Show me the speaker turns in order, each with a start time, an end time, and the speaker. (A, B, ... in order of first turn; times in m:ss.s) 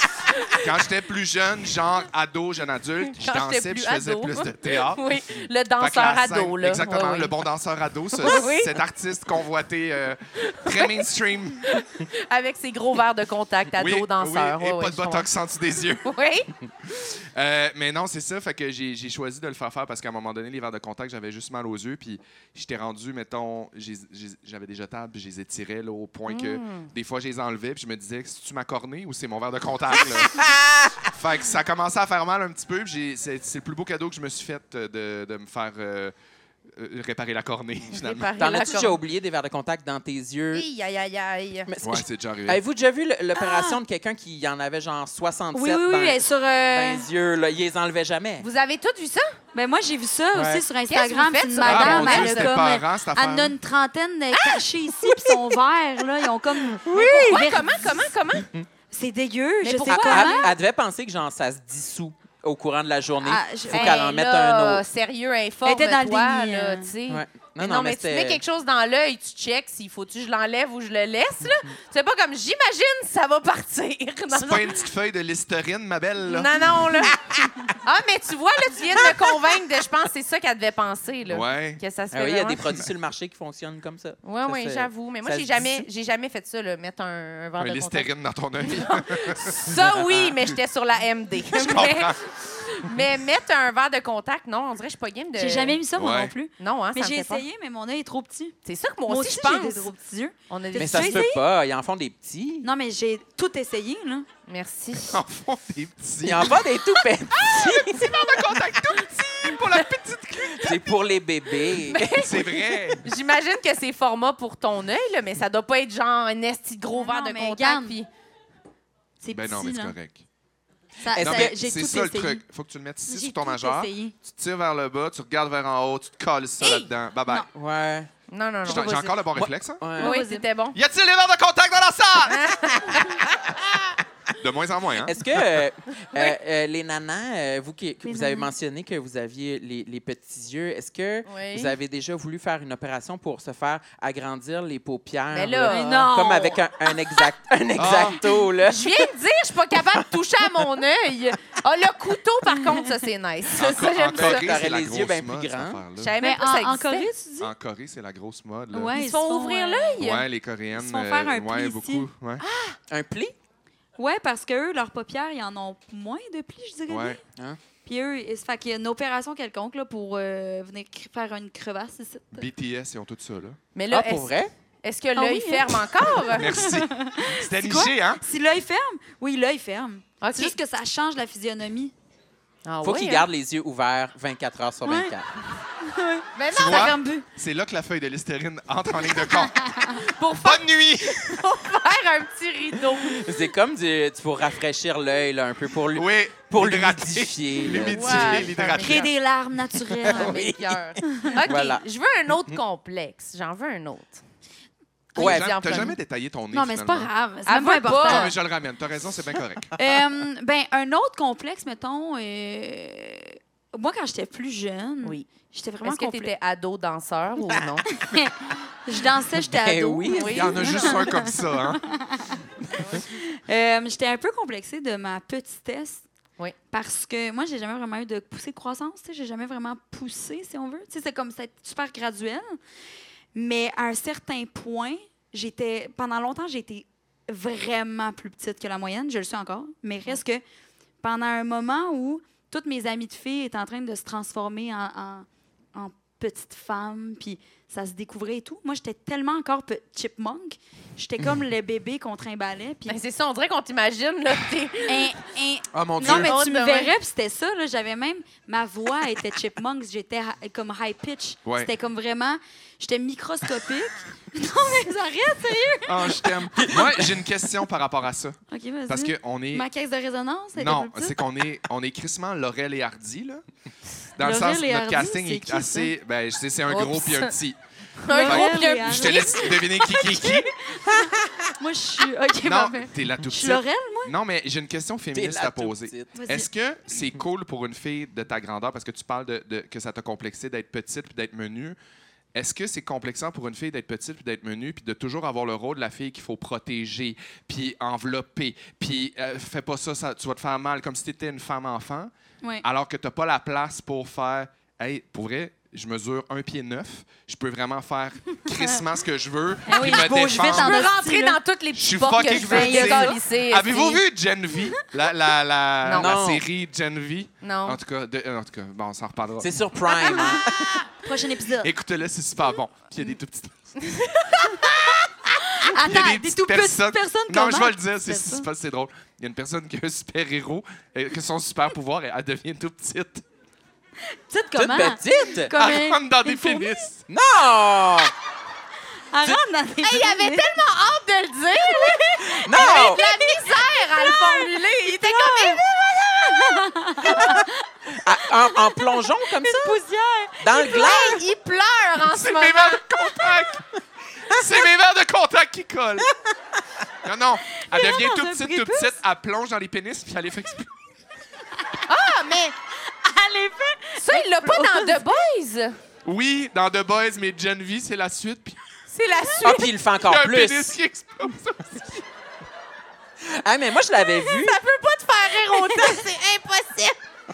0:00.2-0:00.6 A
0:00.5-0:05.0 B
0:03.1-0:07.3 A
0:05.8-0:11.6 B
0:08.2-0:08.8 A
0:10.4-0:11.0 A
0:11.6-0:15.3 A
0:13.7-0:16.2 B
0:16.0-0:16.5 A
0:17.1-0:30.5 B
0:26.3-0:26.9 A
0:30.1-0:31.0 C
0:31.0-0:36.1 B
0:36.7-0:38.3 B
0:37.9-0:39.0 A
0:38.4-0:40.7 C
0:40.5-0:41.7 A
0:41.7-0:48.4 C
0:41.8-0:42.6 B
0:43.4-0:43.8 D
0:45.5-0:47.1 D
0:48.4-0:49.4 A
0:49.5-0:57.9 D
0:50.3-0:50.6 C
0:50.9-0:52.6 A
0:51.6-0:53.5 B
0:54.3-0:55.6 A
0:56.8-0:58.5 A
0:56.8-0:57.5 C
0:58.4-0:58.6 C
0:58.9-1:00.5 D
0:59.6-1:00.5 A
0:59.8-1:04.8 C
1:03.2-1:04.0 D
1:03.7-1:14.7 A
1:05.6-1:06.9 D
1:07.1-1:08.4 C
1:14.3-1:16.5 B
1:16.2-1:17.2 A
1:17.8-1:22.6 A
1:21.3-1:21.8 B
1:22.1-1:25.9 C
1:24.2-1:28.1 A
1:27.6-1:29.6 B
1:28.6-1:35.8 A
1:31.5-1:32.2 B
1:35.4-1:41.4 D
1:35.9-1:36.3 B
1:36.6-1:37.4 A
1:38.6-1:39.9 A
1:40.5-1:41.3 A
1:40.7-1:42.7 C
1:42.6-1:44.2 D
1:44.5-1:45.2 A
1:45.1-1:46.6 B
1:46.2-1:48.6 C
1:47.4-1:50.8 B
1:50.6-1:52.1 C
1:51.7-1:58.1 A
1:52.1-1:53.0 B
1:56.9-1:58.0 D
1:59.2-1:59.9 D
1:59.3-2:00.2 B
2:01.0-2:02.4 D
2:01.1-2:01.5 C
2:01.2-2:07.5 B
2:03.1-2:04.1 D
2:06.6-2:06.9 A
2:07.5-2:08.1 C
2:08.3-2:09.4 A
2:08.6-2:09.9 B
2:08.7-2:10.1 C
2:10.0-2:10.4 D
2:10.0-2:10.8 A
2:10.7-2:13.0 B
2:12.3-2:13.2 A
2:14.3-2:15.6 B
2:15.0-2:29.1 C
2:16.0-2:16.3 A
2:18.0-2:18.5 D
2:21.2-2:21.8 A
2:25.3-2:26.1 A
2:25.6-2:27.3 D
2:27.8-2:28.2 B
2:28.6-2:34.5 A
2:29.7-2:30.0 C
2:33.5-2:36.2 B
2:34.1-2:35.8 C
2:36.0-2:37.1 A
2:36.2-2:37.5 D
2:37.4-2:39.0 B
2:38.7-2:40.0 D
2:38.9-2:40.2 A
2:40.0-2:42.4 B
2:40.7-2:42.1 D
2:42.4-2:42.8 A
2:42.9-2:43.4 C
2:44.0-2:47.2 D
2:46.9-2:47.2 B
2:47.8-2:52.5 D
2:52.3-2:53.6 B
2:53.7-2:56.6 A
2:53.9-2:54.5 C
2:55.2-3:01.9 D
2:56.3-2:58.2 B
3:00.2-3:00.5 A
3:02.6-3:03.2 A
3:02.8-3:05.3 C
3:04.8-3:05.2 D
3:05.8-3:07.2 D
3:06.3-3:06.9 A
3:06.5-3:11.4 B
3:09.1-3:10.0 D
3:10.0-3:13.2 A
3:12.9-3:18.7 C
3:15.9-3:19.1 B
3:17.8-3:19.1 A
3:18.8-3:20.4 D
3:19.8-3:21.8 C
3:20.1-3:24.2 A
3:21.1-3:21.4 D
3:25.1-3:26.0 A
3:25.2-3:25.8 C
3:25.2-3:27.1 B
3:26.5-3:28.4 D
3:27.4-3:28.3 A
3:28.0-3:29.7 B
3:29.8-3:36.3 D
3:35.8-3:37.9 A
3:37.9-3:42.4 D
3:39.3-3:40.8 C
3:40.1-3:40.8 A
3:40.3-3:41.8 B
3:42.7-3:43.0 A
3:42.9-3:46.0 D
3:46.7-3:52.6 D
3:53.3-4:00.4 D
4:01.0-4:13.0 D
4:12.8-4:15.1 A
4:14.9-4:26.4 D
4:15.7-4:16.3 B
4:16.0-4:16.9 A
4:25.8-4:29.6 B
4:26.6-4:27.1 C
4:28.5-4:31.2 D
4:30.6-4:33.4 B
4:34.2-4:37.6 B
4:34.2-4:35.9 D
4:36.7-4:37.3 A
4:38.0-4:39.5 A
4:38.1-4:44.1 D
4:38.2-4:40.5 B
4:41.0-4:41.3 C
4:42.4-4:51.8 B
4:45.1-4:46.2 C
4:46.1-4:46.5 D
4:52.3-5:02.1 B
5:02.6-5:10.9 B
5:09.6-5:11.4 D
5:10.4-5:14.0 A
5:11.7-5:19.5 B
5:12.3-5:13.2 D
5:15.8-5:16.2 A
5:16.0-5:16.4 C
5:17.4-5:17.8 A
5:19.4-5:20.8 C
5:19.9-5:20.5 D
5:21.0-5:21.7 D
5:21.6-5:33.2 B
5:23.8-5:24.2 A
5:25.5-5:28.5 D
5:34.3-5:36.9 D
5:34.5-5:35.5 C
5:35.5-5:37.0 B
5:37.1-5:38.1 C
5:39.1-5:40.6 D
5:39.8-5:45.6 A
5:41.5-5:51.1 D
5:42.4-5:43.0 C
5:47.1-5:49.8 C
5:50.4-5:51.2 C
5:50.6-5:53.2 A
5:52.0-5:53.6 B
5:54.3-5:56.1 B
5:57.0-6:00.7 B
5:57.6-5:59.0 D
6:01.9-6:02.5 A
6:02.8-6:05.1 D
6:03.9-6:05.7 A
6:06.0-6:08.6 B
6:08.9-6:09.7 A
6:09.4-6:10.8 C
6:10.0-6:12.0 B
6:13.2-6:14.6 C
6:14.0-6:17.0 A